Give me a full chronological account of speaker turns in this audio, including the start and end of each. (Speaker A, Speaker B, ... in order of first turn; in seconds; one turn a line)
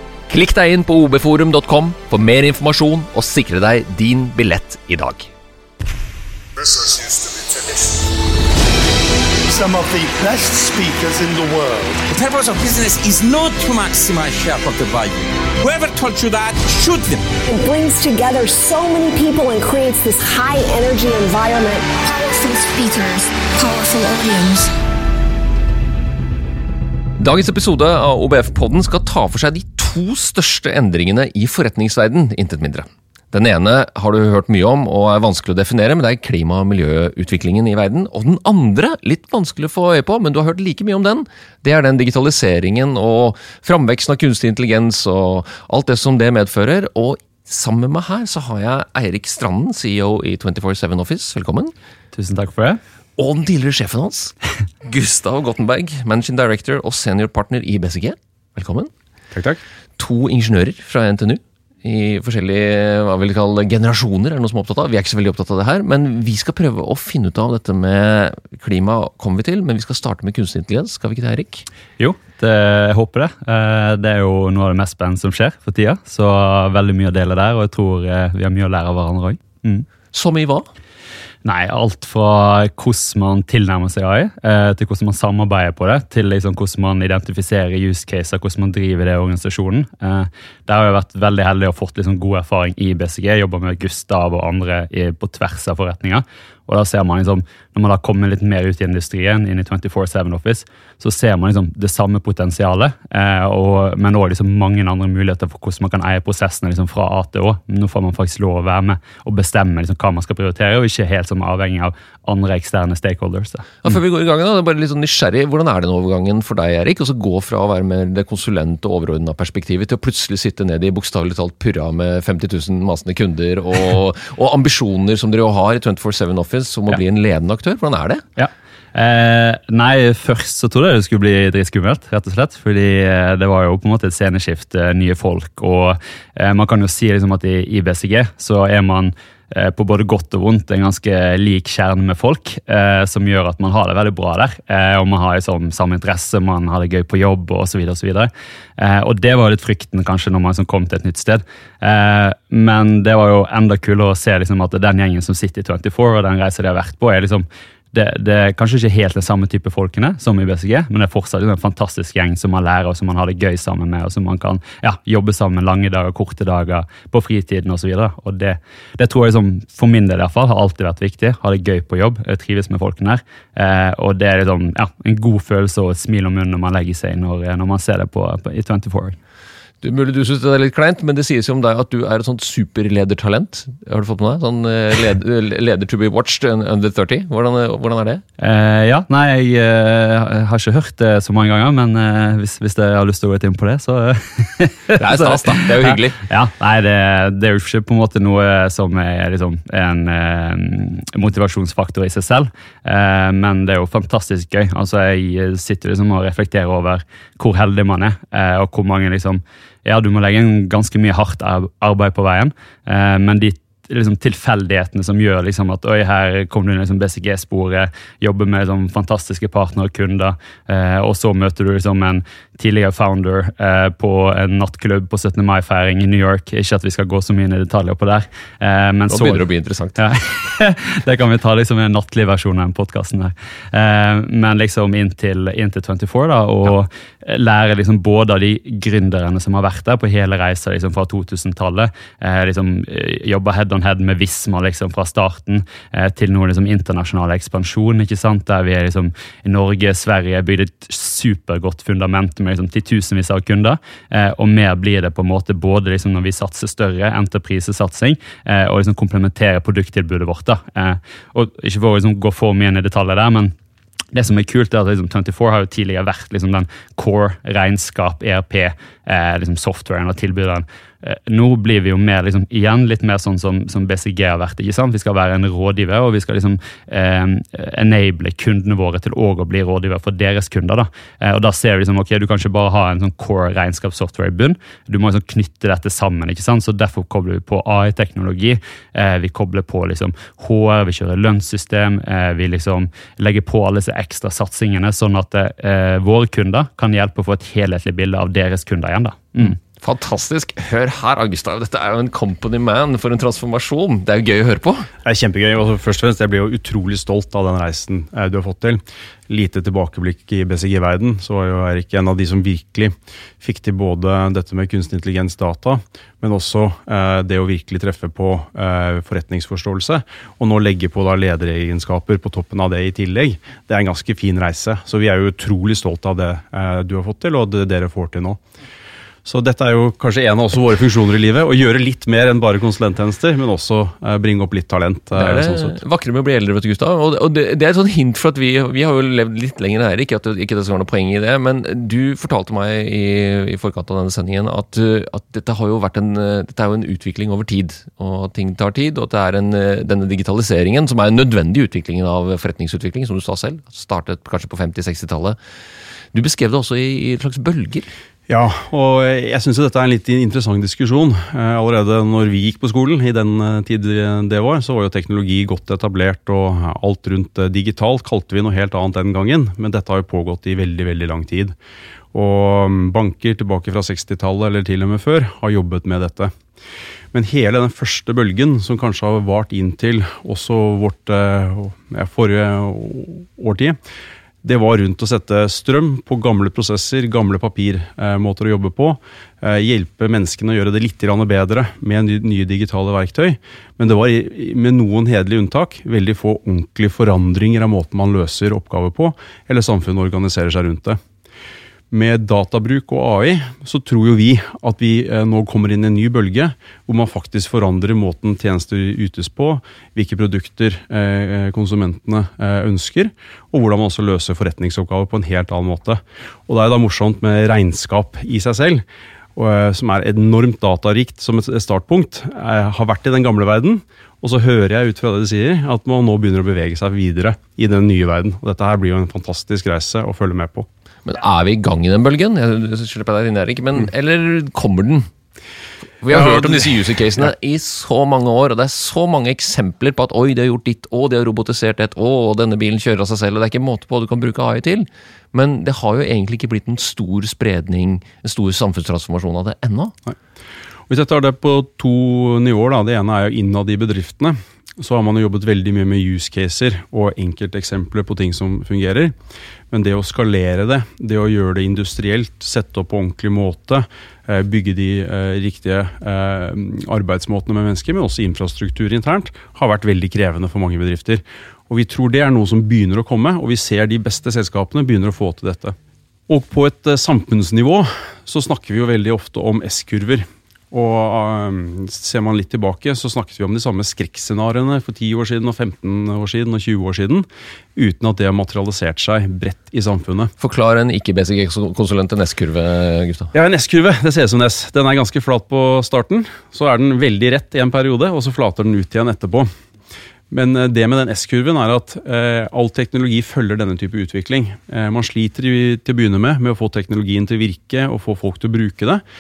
Speaker A: 0.3-5.3
Speaker B: 6.6-8.2
Speaker B: 9.5-12.1
Speaker C: 12.1-17.3
Speaker D: 17.5-22.0
Speaker E: 22.0-24.7
Speaker A: 27.2-51.7
Speaker F: 52.1-52.8
Speaker A: 53.2-58.9
Speaker G: 59.3-59.6
Speaker A: 60.0-71.7
Speaker F: 72.0-79.9
Speaker A: 80.1-80.7
Speaker F: 81.5-114.0
Speaker A: 113.8-128.2
Speaker F: 128.4-179.2
Speaker A: 179.8-188.2
Speaker F: 188.4-229.4
Speaker A: 195.0-196.2
Speaker A: 229.1-230.1
Speaker F: 230.0-263.5
Speaker F: 264.1-299.6
Speaker A: 299.8-304.9
Speaker G: 305.1-328.4
Speaker G: 329.2-335.8
Speaker A: 335.1-355.4
Speaker A: 356.1-357.9
Speaker G: 358.3-371.6
Speaker G: 372.1-376.3
Speaker G: 377.1-383.8
Speaker G: 384.4-401.0
Speaker G: 401.9-430.7
Speaker A: 431.1-435.1
Speaker A: 436.0-449.9
Speaker G: 436.1-436.7
Speaker G: 450.9-459.1
Speaker G: 459.7-475.8
Speaker G: 476.3-490.3
Speaker A: 490.4-493.3
Speaker G: 493.3-499.5
Speaker G: 500.3-509.0